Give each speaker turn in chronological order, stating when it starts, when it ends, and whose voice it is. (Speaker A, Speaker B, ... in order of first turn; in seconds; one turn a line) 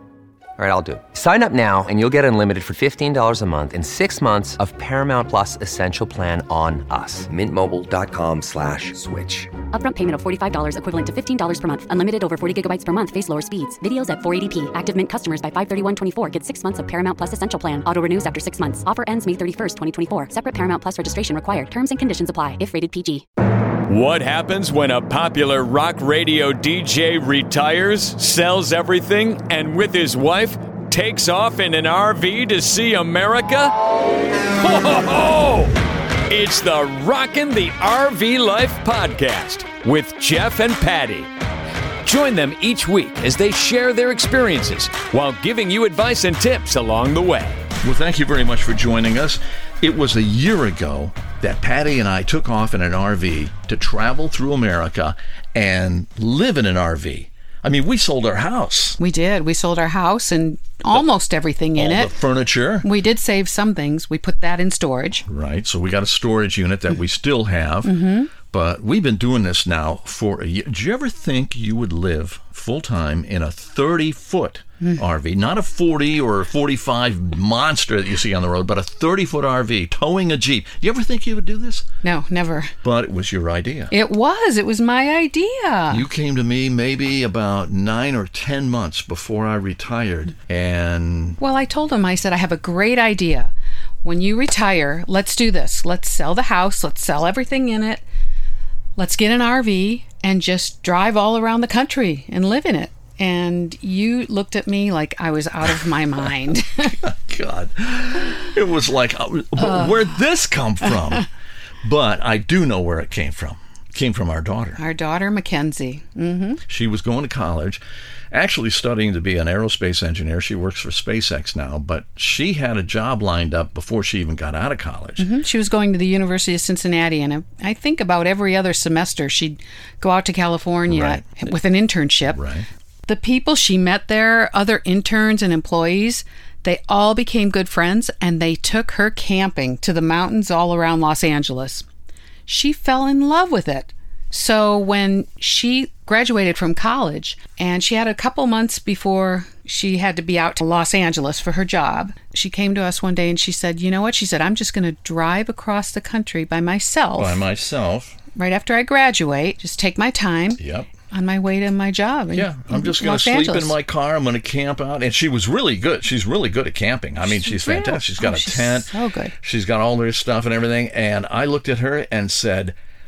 Speaker A: 0.6-9.5
Speaker B: 9.7-23.2
Speaker C: 23.9-33.7
Speaker C: 34.6-41.3
Speaker C: 42.0-47.7
Speaker D: 47.8-59.0
Speaker E: 59.0-62.1
Speaker D: 61.8-62.9
Speaker E: 62.8-65.2
Speaker D: 65.3-67.9
Speaker E: 67.8-68.3
Speaker D: 68.5-81.9
Speaker E: 74.8-75.0
Speaker E: 82.0-82.7
Speaker D: 82.8-83.9
Speaker E: 83.9-86.0
Speaker D: 85.9-91.4
Speaker E: 91.4-93.5
Speaker E: 94.0-98.0
Speaker E: 99.0-107.0
Speaker D: 107.0-111.3
Speaker E: 109.6-110.1
Speaker D: 111.8-114.8
Speaker E: 114.8-116.6
Speaker D: 116.7-125.3
Speaker E: 125.2-132.4
Speaker D: 130.9-131.3
Speaker D: 132.3-132.7
Speaker E: 133.1-141.9
Speaker E: 142.5-157.4
Speaker D: 157.2-158.2
Speaker E: 158.3-163.8
Speaker D: 160.6-160.9
Speaker D: 162.3-172.8
Speaker E: 167.2-169.3